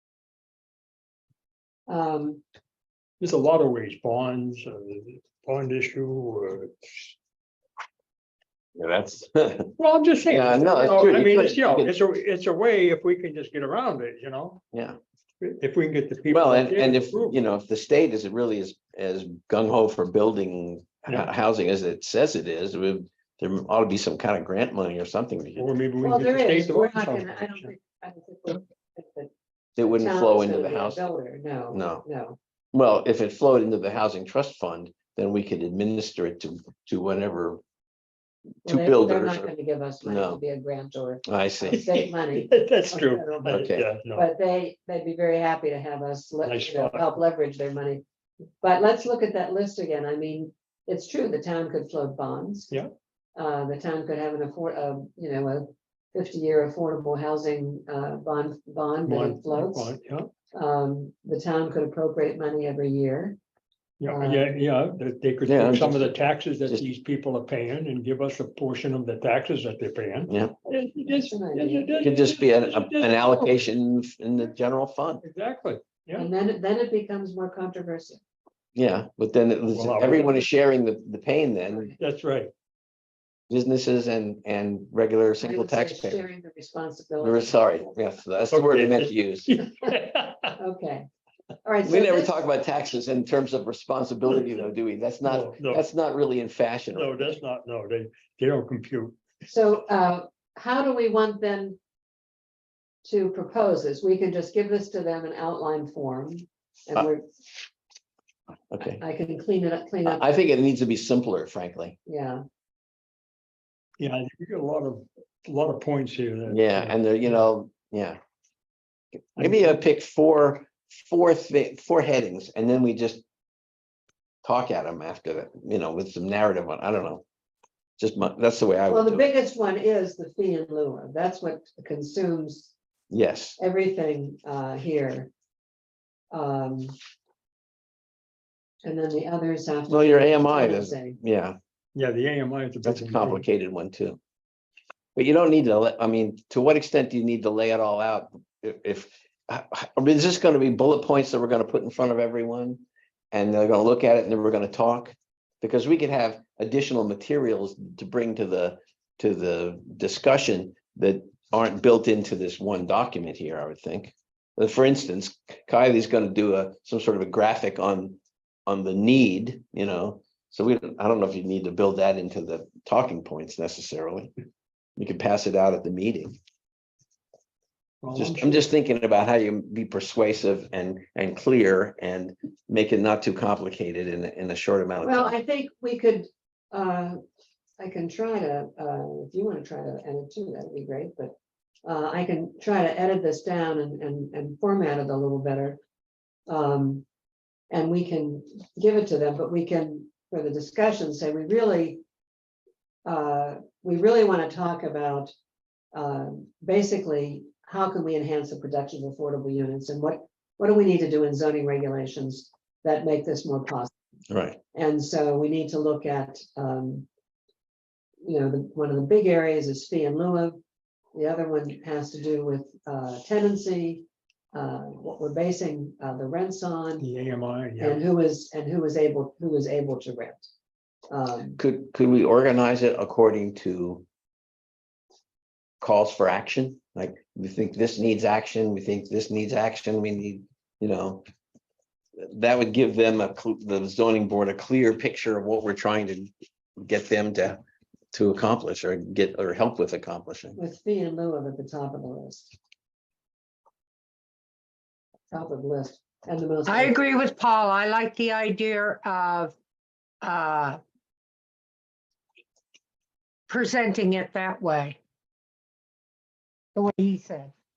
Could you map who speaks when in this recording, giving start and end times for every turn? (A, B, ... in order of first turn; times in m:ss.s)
0:01.9-0:02.4 A
0:03.2-0:07.2 B
0:08.8-0:09.7 C
0:09.8-0:14.6 B
0:10.3-0:11.9 C
0:15.4-0:17.4 B
0:16.3-0:25.7 C
0:25.6-0:27.7 B
0:26.0-0:29.3 A
0:29.8-0:31.0 C
0:29.8-0:32.4 A
0:31.7-0:32.0 C
0:32.7-0:37.6 C
0:38.6-0:39.5 C
0:38.7-0:48.0 A
0:40.0-0:40.4 C
0:41.3-0:42.0 C
0:41.7-0:44.3 B
0:43.5-0:43.9 C
0:46.4-0:47.1 B
0:48.6-0:52.7 A
0:53.4-1:00.0 A
0:59.1-1:00.3 B
1:00.5-1:03.4 A
1:04.0-1:13.6 B
1:04.1-1:04.6 A
1:05.4-1:06.1 C
1:10.3-1:10.6 C
1:11.1-1:12.1 A
1:12.0-1:15.2 C
1:15.2-1:16.3 B
1:16.2-1:18.2 A
1:18.8-1:22.0 C
1:19.7-1:20.5 B
1:22.0-1:22.5 B
1:23.5-1:26.2 C
1:25.4-1:27.6 A
1:27.2-1:29.5 C
1:28.5-1:30.5 B
1:30.6-1:31.1 A
1:31.6-1:32.4 A
1:31.8-1:37.2 C
1:35.2-1:35.8 B
1:36.9-1:39.2 B
1:39.4-1:41.8 A
1:43.0-1:47.2 A
1:48.7-1:49.0 C
1:49.0-1:50.3 A
1:50.0-1:52.0 C
1:52.1-1:52.4 A
1:54.0-1:57.4 B
1:56.5-1:58.2 C
1:59.4-2:03.2 C
2:04.4-2:07.2 C
2:08.0-2:09.3 C
2:08.9-2:12.7 A
2:13.1-2:13.6 C
2:13.6-2:15.3 A
2:16.3-2:17.0 A
2:18.8-2:21.2 A
2:19.9-2:21.6 C
2:22.0-2:23.4 B
2:22.8-2:24.2 C
2:25.2-2:54.3 C
2:55.0-2:56.4 C
2:58.0-2:58.6 B
2:58.2-3:05.4 C
3:05.0-3:07.2 A
3:07.8-3:15.8 A
3:16.5-3:17.0 A
3:17.7-3:22.0 A
3:23.0-3:25.3 A
3:25.9-3:33.9 A
3:34.3-3:34.6 C
3:34.7-3:37.1 A
3:38.2-3:40.6 A
3:41.1-3:47.1 A
3:47.0-3:48.0 B
3:47.8-3:50.5 A
3:51.1-3:51.6 A
3:51.6-3:54.0 C
3:55.8-4:01.2 C
4:02.2-4:07.6 C
4:08.1-4:10.6 C
4:10.6-4:12.5 A
4:15.3-4:17.0 A
4:16.7-4:19.5 D
4:20.2-4:20.8 D
4:23.5-4:25.0 D
4:26.8-4:27.5 D